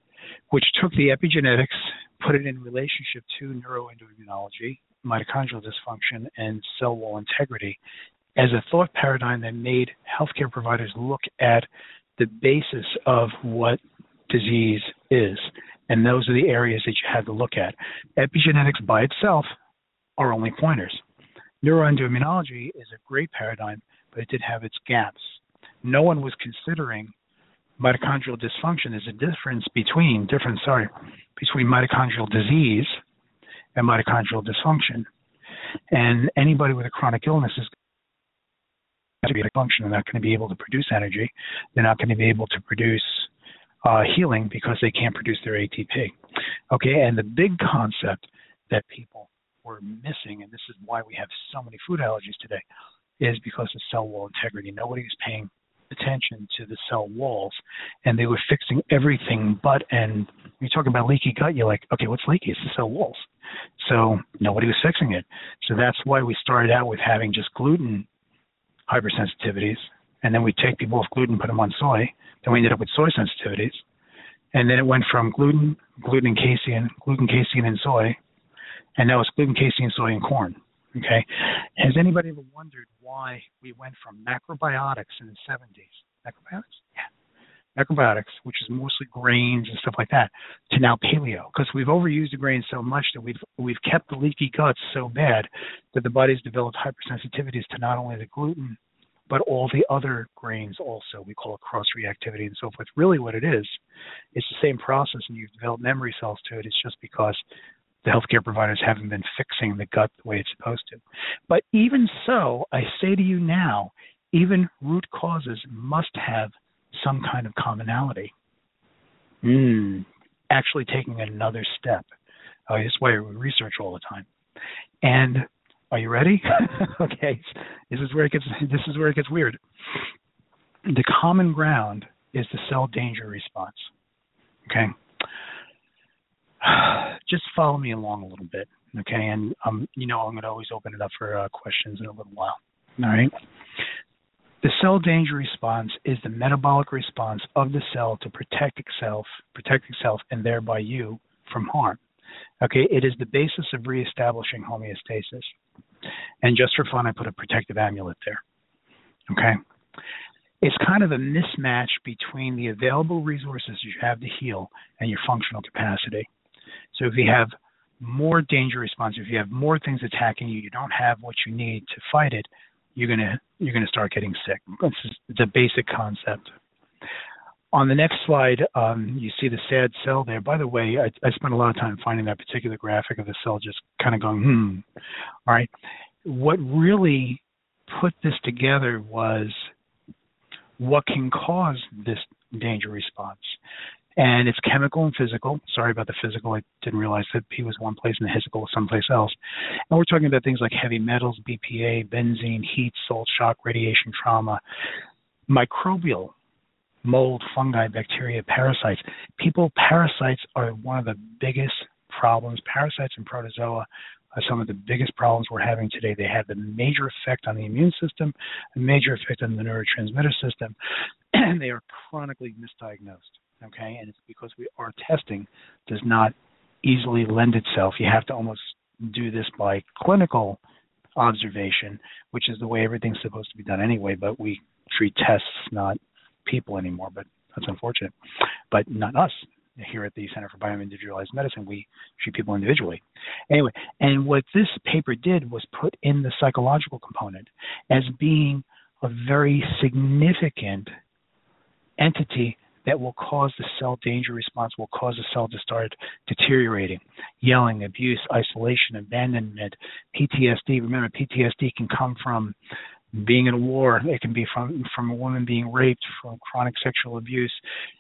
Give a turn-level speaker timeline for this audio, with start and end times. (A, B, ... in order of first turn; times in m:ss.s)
0:00.5-0:07.8 A
0:08.4-0:19.5 A
0:20.2-0:21.0 A
0:21.6-0:27.1 A
0:27.8-0:33.0 A
0:33.8-0:35.1 A
0:35.9-0:37.7 A
0:39.2-0:43.3 A
0:43.8-0:46.2 A
0:46.7-0:52.6 A
0:53.2-1:08.1 A
1:08.9-1:13.8 A
1:14.5-1:18.2 A
1:19.0-1:27.1 A
1:27.8-1:38.8 A
1:39.3-1:43.8 A
1:44.3-1:47.4 A
1:48.0-1:58.3 A
1:59.4-2:02.1 A
2:02.7-2:04.3 A
2:05.0-2:10.1 A
2:10.9-2:13.9 A
2:14.7-2:15.0 A
2:16.6-2:23.3 A
2:24.6-2:32.0 A
2:32.6-2:35.6 A
2:36.4-2:38.4 A
2:39.3-2:39.6 A
2:40.6-2:46.3 A
2:46.9-2:56.6 A
2:57.7-3:04.8 A
3:06.2-3:09.7 A
3:10.8-3:13.6 A
3:14.2-3:19.4 A
3:19.9-3:24.6 A
3:25.5-3:26.3 A
3:27.0-3:40.8 A
3:41.3-3:50.6 A
3:51.2-3:58.1 A
3:58.7-4:10.9 A
4:12.0-4:22.6 A
4:23.1-4:27.6 A